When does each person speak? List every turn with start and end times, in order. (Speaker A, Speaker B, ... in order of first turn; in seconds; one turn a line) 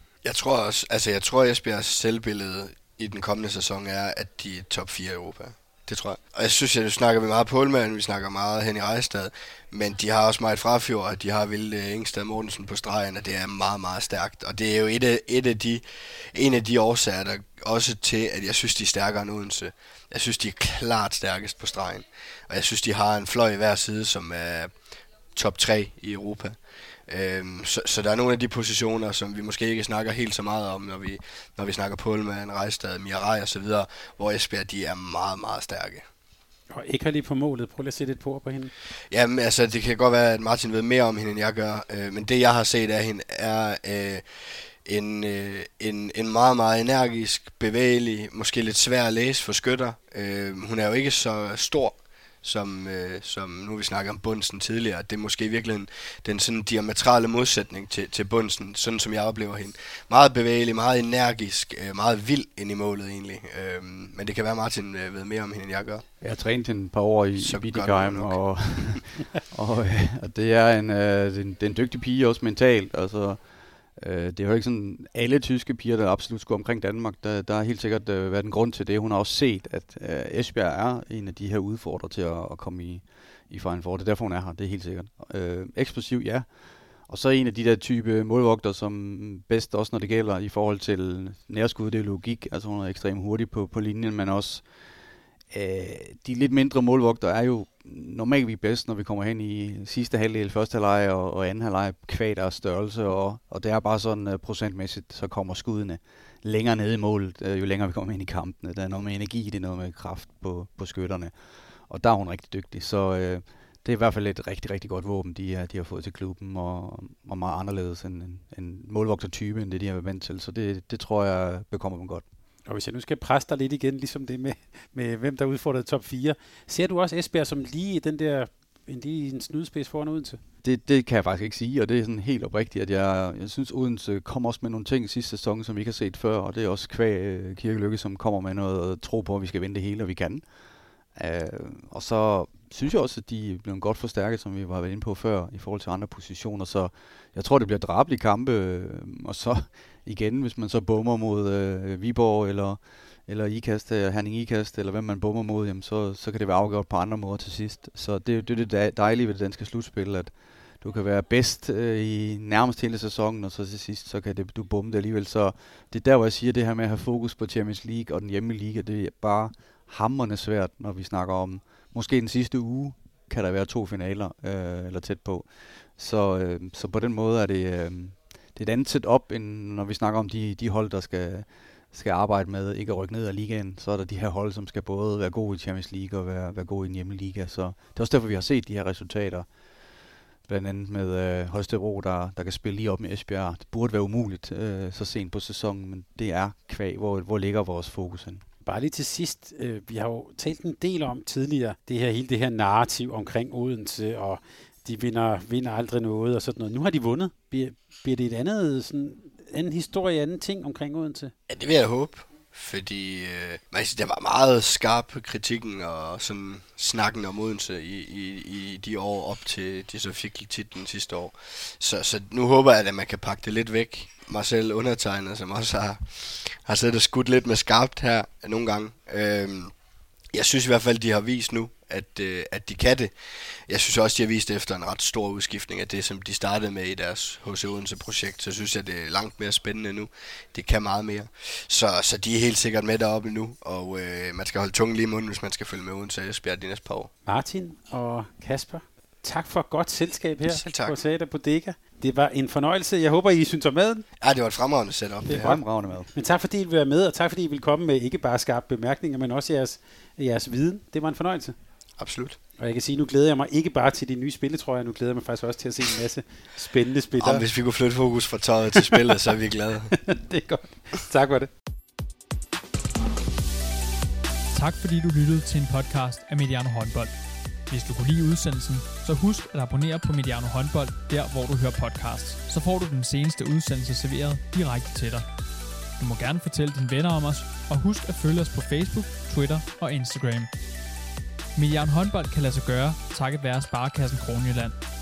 Speaker A: 0.2-24.7
Speaker A: 25.3-36.0
Speaker B: 36.7-38.7
Speaker A: 39.1-44.2
Speaker A: 44.9-66.0
Speaker C: 66.2-73.4
Speaker A: 67.4-68.4
Speaker C: 74.0-86.5
Speaker C: 87.1-94.6
Speaker C: 95.5-111.3
Speaker C: 111.9-122.2
Speaker B: 122.7-130.4
Speaker C: 130.6-140.4
Speaker C: 141.2-189.5
Speaker C: 190.5-198.4
Speaker B: 198.6-211.3
Speaker A: 211.5-229.7
Speaker A: 230.3-233.1
Speaker A: 233.7-247.1
Speaker B: 247.2-254.0
Speaker A: 250.4-250.9
Speaker A: 254.2-255.6
Speaker B: 255.3-255.6
Speaker C: 255.3-256.1
Speaker B: 256.1-261.5
Speaker A: 262.0-262.4
Speaker B: 262.6-267.4
Speaker A: 267.2-270.0
Speaker B: 270.0-271.5
Speaker D: 274.5-277.1
Speaker D: 277.7-285.2
Speaker D: 286.0-290.5
Speaker D: 291.5-294.8